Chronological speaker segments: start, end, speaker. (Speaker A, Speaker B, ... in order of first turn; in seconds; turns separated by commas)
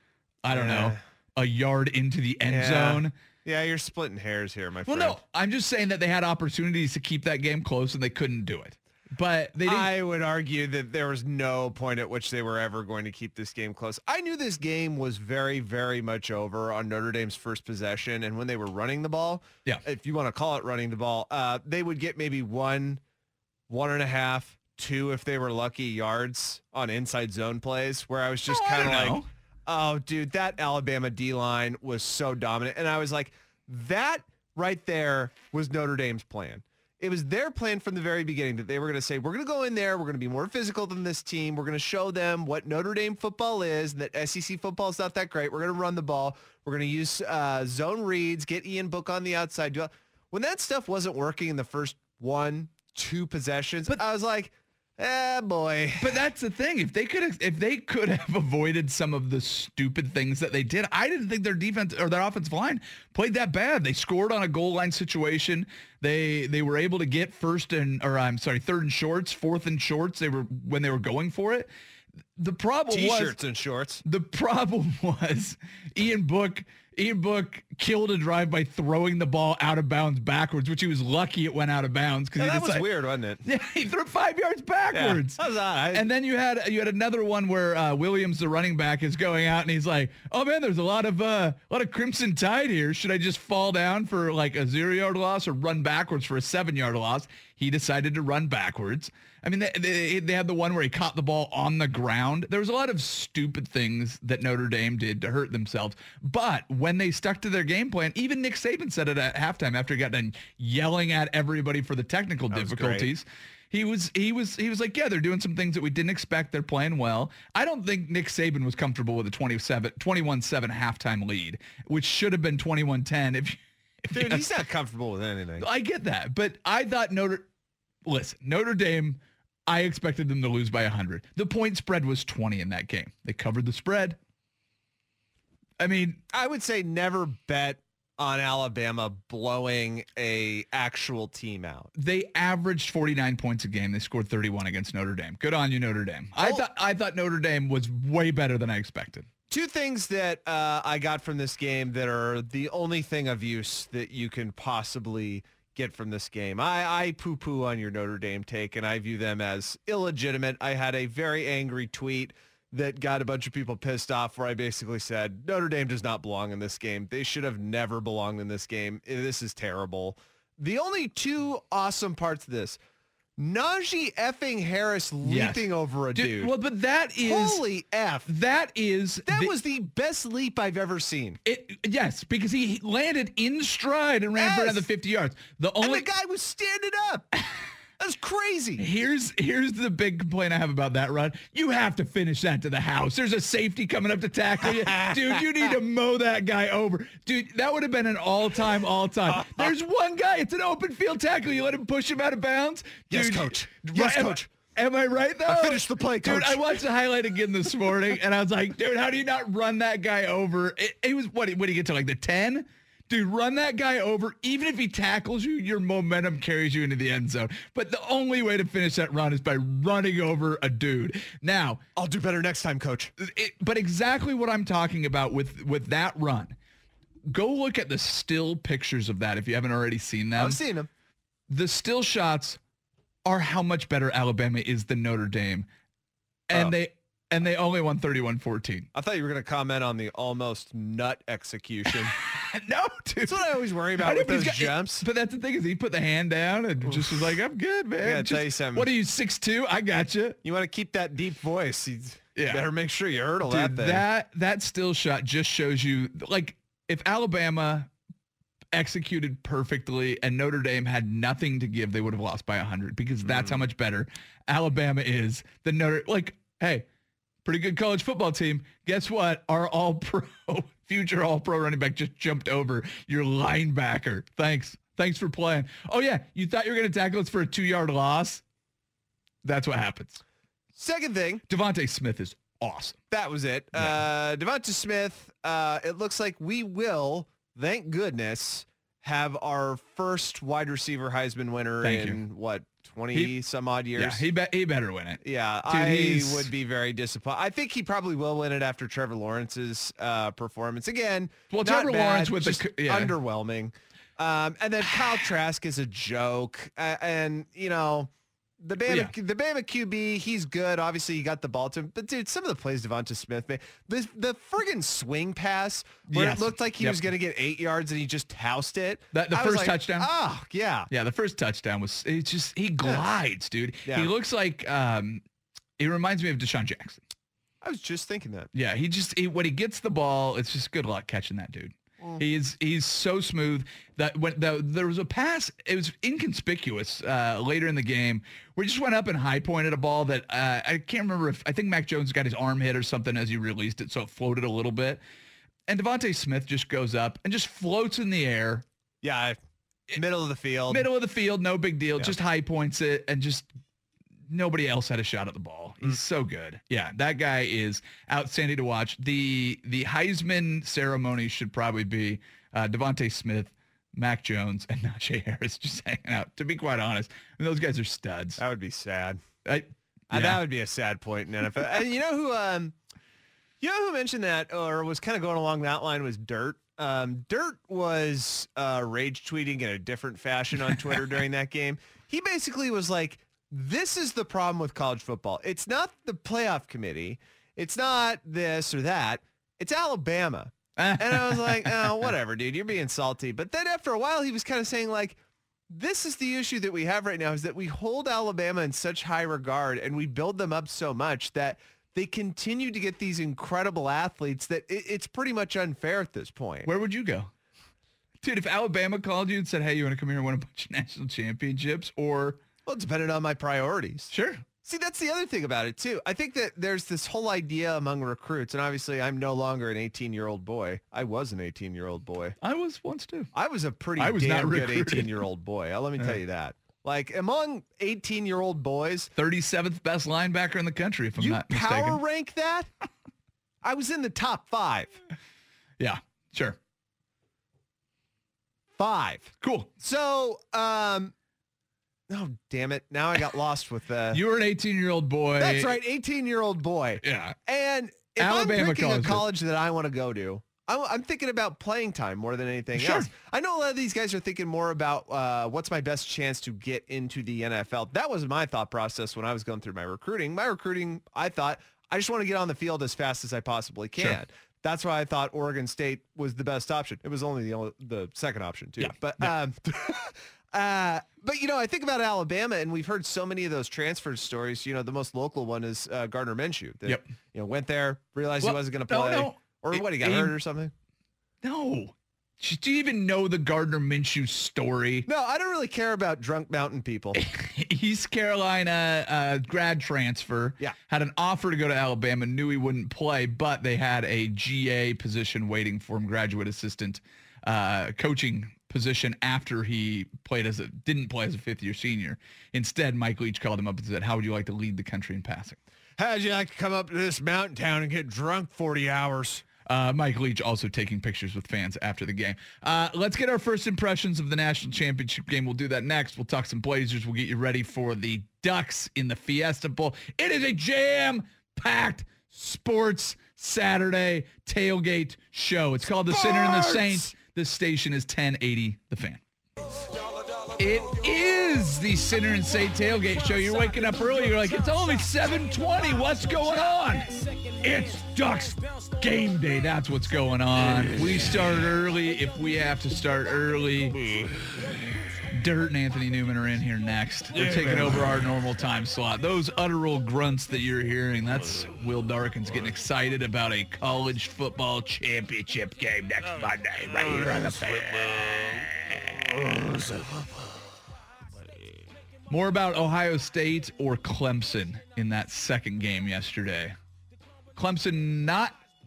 Speaker A: 0.4-3.1, Speaker B: 0.5-1.0, Speaker B: 2.5-5.2, Speaker A: 4.9-9.9, Speaker B: 9.6-23.0, Speaker B: 23.7-56.2, Speaker A: 28.5-29.2, Speaker A: 56.0-71.7, Speaker A: 72.4-73.3, Speaker B: 72.9-74.0, Speaker A: 74.0-82.8, Speaker B: 82.4-83.4, Speaker A: 83.4-85.4, Speaker B: 84.9-86.0, Speaker A: 85.9-124.4, Speaker B: 112.5-113.1, Speaker B: 124.1-125.7, Speaker A: 125.6-127.5, Speaker A: 128.1-134.2, Speaker A: 135.8-136.2, Speaker B: 136.3-141.9, Speaker A: 142.0-149.3, Speaker B: 149.5-172.8, Speaker B: 173.4-176.5, Speaker A: 175.2-177.6, Speaker B: 177.2-178.3, Speaker A: 178.3-179.5, Speaker B: 179.2-181.4, Speaker A: 181.4-186.1, Speaker B: 184.4-184.9, Speaker B: 185.8-187.3, Speaker B: 188.0-188.8, Speaker A: 188.8-221.8, Speaker B: 194.7-195.7, Speaker B: 199.3-199.7, Speaker B: 203.1-204.5, Speaker B: 205.5-206.8, Speaker B: 221.9-223.1, Speaker A: 223.2-226.6, Speaker A: 227.3-230.6, Speaker B: 230.3-230.9, Speaker A: 231.5-232.6, Speaker A: 233.2-235.7, Speaker A: 236.5-238.9, Speaker B: 238.9-242.1, Speaker A: 242.1-250.4, Speaker B: 243.2-245.0, Speaker B: 246.9-247.3, Speaker B: 248.0-248.9, Speaker B: 250.4-254.0, Speaker A: 252.3-252.6, Speaker A: 253.4-257.9, Speaker A: 258.7-266.9, Speaker B: 263.2-263.6, Speaker A: 267.4-278.4, Speaker A: 279.4-280.2, Speaker B: 280.8-281.4, Speaker A: 281.5-283.0, Speaker B: 283.1-294.2, Speaker A: 283.7-284.0, Speaker A: 291.8-292.2, Speaker A: 294.0-296.5, Speaker B: 295.2-308.1, Speaker A: 301.5-303.1, Speaker B: 308.6-320.9, Speaker A: 308.9-309.1, Speaker A: 316.1-317.0, Speaker A: 319.1-320.1, Speaker A: 320.9-325.2, Speaker A: 325.8-327.0, Speaker B: 327.6-328.5, Speaker A: 328.5-345.0, Speaker A: 345.7-348.6, Speaker B: 349.0-349.4, Speaker B: 349.9-350.9, Speaker A: 350.7-353.5, Speaker A: 354.3-368.4, Speaker B: 368.4-369.2, Speaker A: 369.4-370.4, Speaker B: 370.1-372.7, Speaker B: 373.6-395.2, Speaker A: 390.8-392.0, Speaker B: 395.7-406.7, Speaker A: 406.6-407.3, Speaker A: 408.2-412.4, Speaker B: 412.6-414.1, Speaker A: 414.1-414.4, Speaker B: 414.6-422.4, Speaker A: 422.4-423.3, Speaker B: 423.3-429.1, Speaker A: 424.0-425.2, Speaker A: 429.1-432.0, Speaker B: 431.2-432.7, Speaker B: 433.6-435.0, Speaker A: 435.8-436.6, Speaker B: 438.8-441.1, Speaker A: 439.4-439.7, Speaker B: 442.1-444.2, Speaker A: 444.1-445.8, Speaker B: 445.4-480.7, Speaker A: 447.0-447.4, Speaker A: 448.2-449.2, Speaker A: 452.7-453.1, Speaker A: 468.8-469.3, Speaker A: 478.4-480.3, Speaker A: 481.4-485.1, Speaker B: 485.1-487.2, Speaker A: 487.1-505.6, Speaker B: 506.0-509.4, Speaker A: 509.7-529.2, Speaker B: 526.1-527.1, Speaker A: 530.5-544.0, Speaker A: 545.3-560.0, Speaker B: 547.4-548.0, Speaker A: 562.3-566.8, Speaker A: 567.5-568.6